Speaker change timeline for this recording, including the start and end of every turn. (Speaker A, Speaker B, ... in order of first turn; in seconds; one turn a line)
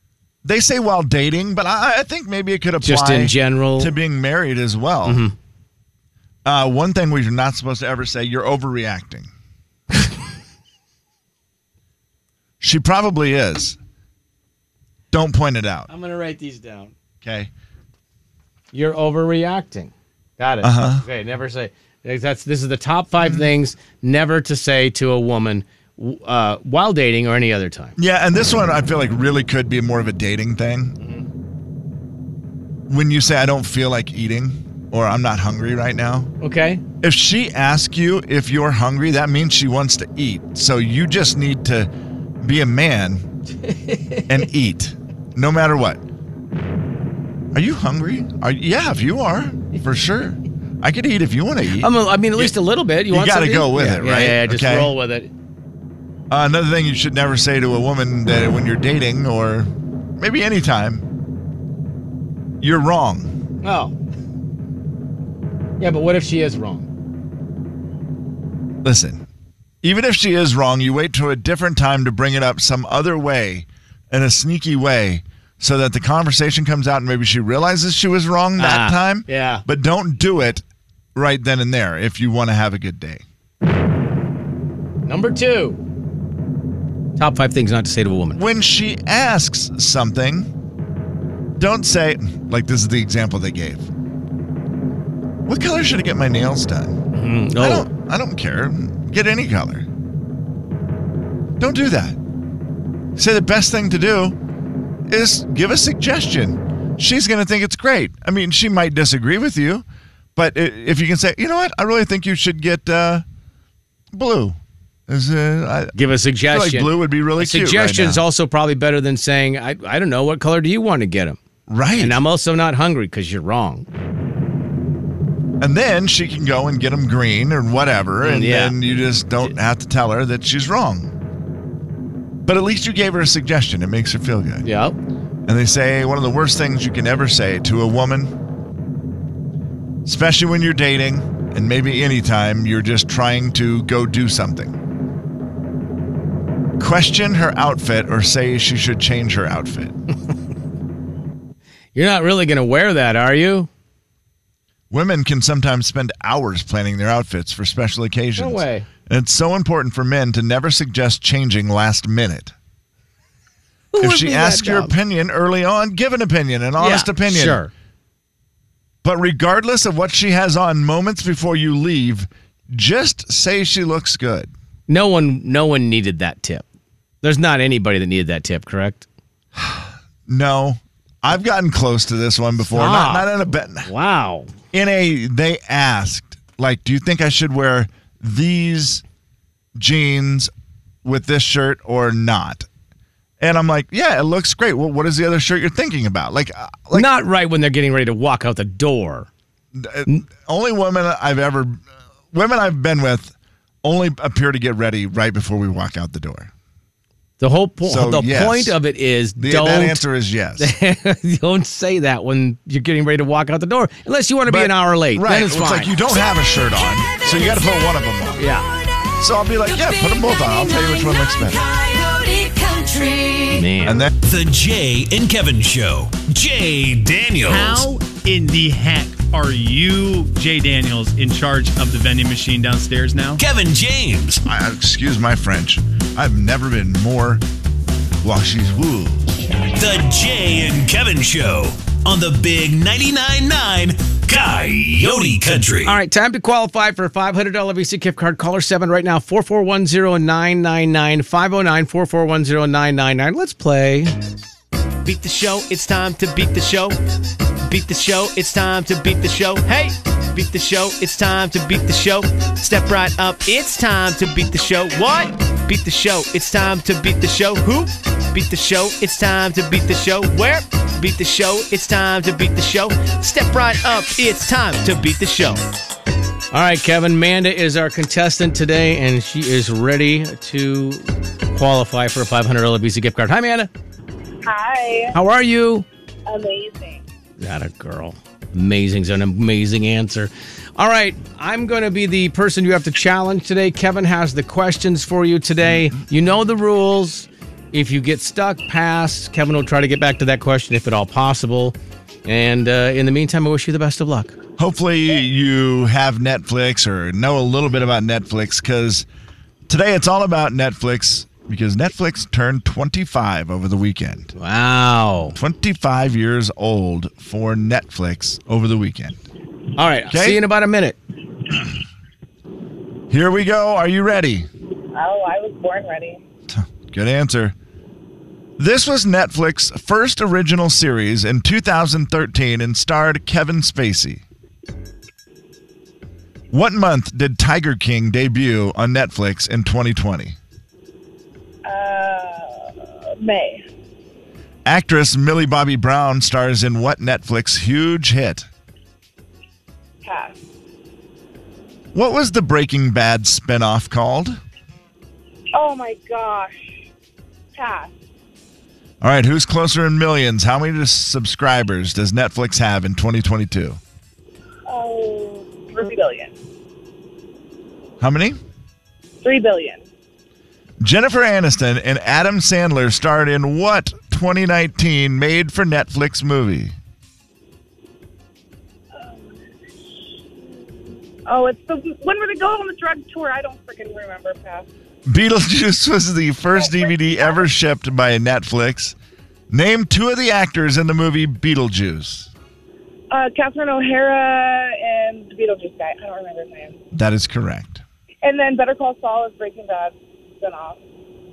Speaker A: 0.4-5.2
Speaker B: 2.8-3.9
Speaker B: 5.0-5.3
Speaker A: 6.4-9.3
Speaker A: 12.6-13.8
Speaker A: 15.1-15.9
Speaker B: 15.9-16.9
Speaker A: 17.2-17.5
Speaker B: 18.7-27.9
Speaker A: 20.6-21.0
Speaker A: 28.0-31.0
Speaker A: 32.9-36.3
Speaker B: 36.4-36.8
Speaker A: 37.0-41.9
Speaker A: 42.4-43.2
Speaker B: 43.6-44.5
Speaker A: 44.3-46.0
Speaker A: 47.5-52.5
Speaker B: 51.8-55.3
Speaker A: 53.1-54.9
Speaker A: 56.3-61.0
Speaker A: 62.6-63.3
Speaker B: 63.6-63.9
Speaker B: 65.8-66.9
Speaker A: 68.8-69.2
Speaker A: 69.8-80.6
Speaker B: 78.6-79.6
Speaker A: 81.1-83.2
Speaker B: 85.0-85.8
Speaker B: 87.2-88.4
Speaker A: 88.3-90.5
Speaker A: 91.6-93.9
Speaker A: 95.5-96.9
Speaker B: 97.1-97.9
Speaker A: 97.6-99.9
Speaker A: 101.6-102.2
Speaker A: 103.2-104.3
Speaker A: 105.1-109.8
Speaker A: 110.3-113.2
Speaker A: 114.1-115.9
Speaker B: 115.9-121.4
Speaker A: 116.5-118.2
Speaker A: 121.7-122.2
Speaker B: 122.0-123.9
Speaker A: 125.6-131.1
Speaker B: 128.2-128.8
Speaker A: 132.4-134.7
Speaker B: 134.6-135.0
Speaker A: 135.4-138.3
Speaker A: 140.0-144.7
Speaker A: 146.8-149.9
Speaker B: 151.9-153.7
Speaker A: 154.9-162.5
Speaker B: 158.4-158.9
Speaker B: 163.9-164.9
Speaker A: 164.0-167.6
Speaker B: 166.8-167.7
Speaker A: 169.0-174.5
Speaker B: 174.9-176.6
Speaker B: 177.2-179.1
Speaker A: 179.6-183.9
Speaker B: 182.7-184.5
Speaker A: 184.7-189.0
Speaker A: 189.8-190.5
Speaker A: 191.0-192.7
Speaker A: 193.4-197.1
Speaker B: 196.9-199.3
Speaker A: 199.7-206.5
Speaker B: 207.4-210.0
Speaker A: 207.8-208.8
Speaker A: 209.4-210.7
Speaker B: 210.6-215.9
Speaker A: 214.4-218.5
Speaker B: 218.4-218.7
Speaker A: 219.2-221.6
Speaker C: 219.6-223.7
Speaker B: 223.5-224.0
Speaker A: 223.8-224.1
Speaker D: 224.2-227.9
Speaker E: 227.4-233.4
Speaker D: 233.4-234.4
Speaker A: 234.4-237.4
Speaker A: 238.2-239.2
Speaker D: 239.7-245.9
Speaker B: 245.8-254.1
Speaker F: 255.0-257.0
Speaker F: 257.6-275.6
Speaker B: 276.5-283.7
Speaker G: 284.4-285.1
Speaker B: 285.1-285.9
Speaker G: 286.2-287.0
Speaker B: 287.4-304.3
Speaker A: 304.6-309.1
Speaker A: 309.7-314.3
Speaker B: 314.4-315.4
Speaker A: 315.3-319.2
Speaker B: 319.8-321.0
Speaker A: 320.1-320.4
Speaker A: 323.1-324.5
Speaker G: 324.9-326.2
Speaker A: 326.5-327.5
Speaker A: 328.6-334.2
Speaker A: 336.5-340.4
Speaker G: 341.6-343.6
Speaker A: 344.6-348.5
Speaker G: 350.0-350.4
Speaker A: 351.9-354.4
Speaker G: 355.5-356.8
Speaker G: 357.5-357.9
Speaker A: 359.0-363.8
Speaker G: 364.7-366.3
Speaker A: 368.0-368.4
Speaker G: 369.2-369.8
Speaker A: 370.8-376.7
Speaker G: 378.9-379.4
Speaker G: 381.2-384.6
Speaker A: 385.1-388.9
Speaker G: 386.6-387.4
Speaker A: 389.5-392.3
Speaker G: 393.1-396.8
Speaker A: 396.9-397.8
Speaker G: 398.2-400.8